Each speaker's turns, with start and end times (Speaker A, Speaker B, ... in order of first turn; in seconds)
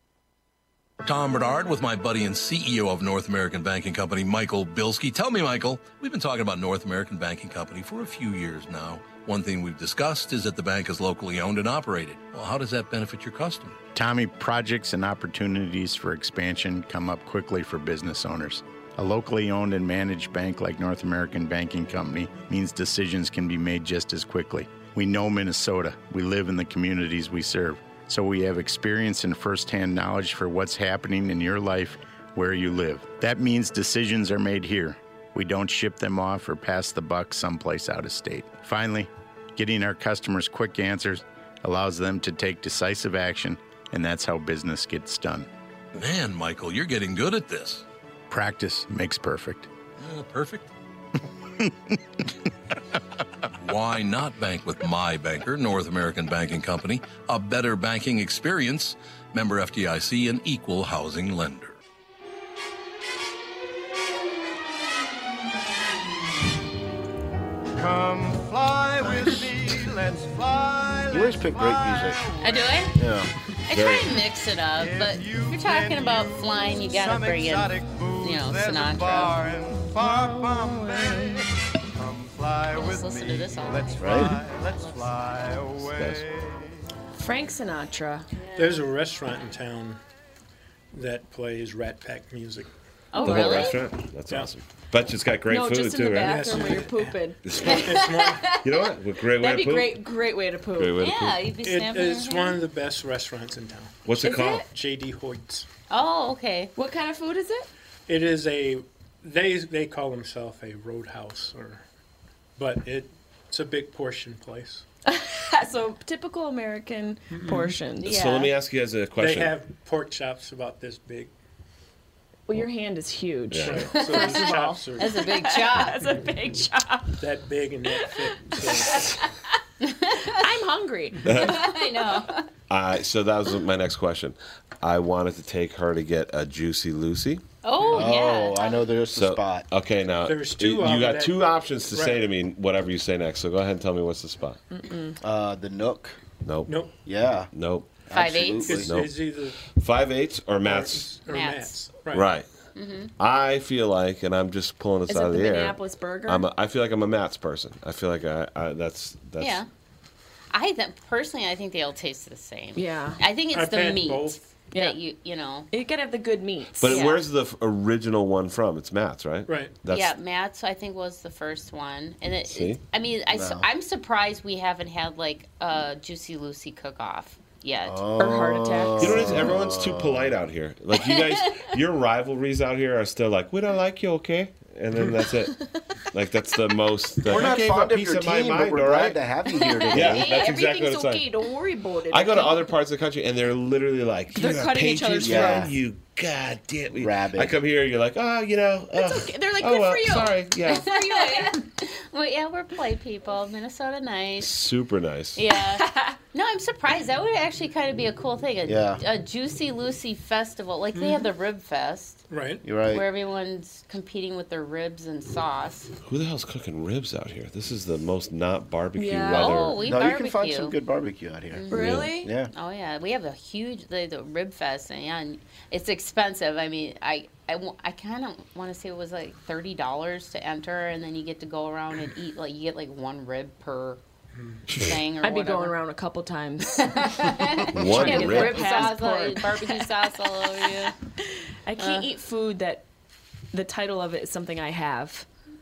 Speaker A: 1.0-13.8, 46.0-47.8, 50.0-50.7, 53.5-61.8
Speaker B: 13.9-45.5, 48.3-49.7
Speaker C: 67.8-72.9, 74.8-86.8
Speaker D: 69.0-69.5, 71.1-72.3, 73.0-73.3, 84.0-84.3, 137.9-139.7, 145.2-146.2, 147.0-147.5, 148.1-149.1, 173.3-173.7, 177.8-180.3, 187.2-190.4, 195.2-195.7, 197.0-197.6, 208.7-209.0, 212.6-213.1, 219.8-222.5
Speaker E: 72.4-73.0, 73.7-79.4, 82.7-85.6, 88.4-88.8, 93.1-93.8, 97.6-98.8, 101.0-102.6, 105.9-106.7, 118.0-118.5, 123.9-126.0, 129.8-130.5, 131.3-132.5, 137.6-138.9, 148.1-148.8, 151.3-151.8, 152.8-153.1, 159.4-159.7, 160.5-165.7, 166.8-167.2, 169.9-178.0, 181.0-181.7, 201.0-204.5, 205.4-212.2, 212.9-215.9, 219.4-220.8, 221.5-234.0, 234.7-235.8, 236.8-240.9, 241.8-242.1
Speaker F: 73.7-74.2, 85.8-86.2, 93.2-96.6, 97.4-100.0, 100.7-101.5, 104.0-104.7, 118.0-119.6, 123.5-124.1, 131.2-131.7, 132.7-137.4, 139.2-144.6, 146.4-146.8, 147.5-148.0, 148.7-151.1, 152.1-152.5, 153.2-159.6, 166.8-170.2, 172.5-172.8, 179.0-185.6, 186.1-189.2, 189.9-191.3, 192.1-201.0, 204.4-205.4, 216.0-219.9, 221.7-222.1, 234.7-235.0, 237.7-238.9
Speaker G: 80.6-81.0, 87.2-88.3, 93.2-93.7, 95.5-97.4, 99.4-101.0, 104.2-104.7, 106.8-107.7, 115.1-118.1, 122.5-127.2, 127.9-129.3, 130.3-132.1, 144.7-145.2, 155.1-156.5, 162.8-163.2, 165.7-167.2, 178.2-179.2, 190.0-192.7, 194.3-195.7, 199.0-201.6, 205.8-206.2, 219.0-219.7, 221.7-222.3, 235.2-236.9, 237.8-239.9, 241.7-242.8, 243.5-245.3
Speaker H: 88.6-90.0, 90.9-92.7, 96.2-98.5, 101.6-105.7, 108.1-111.8, 112.6-114.8, 117.3-117.8, 119.2-121.3, 123.6-125.2, 127.2-129.0, 140.2-142.2, 146.7-146.9, 148.7-149.6, 150.7-152.3, 163.5-164.4, 169.5-169.8, 210.9-211.3, 212.3-212.6, 234.4-234.6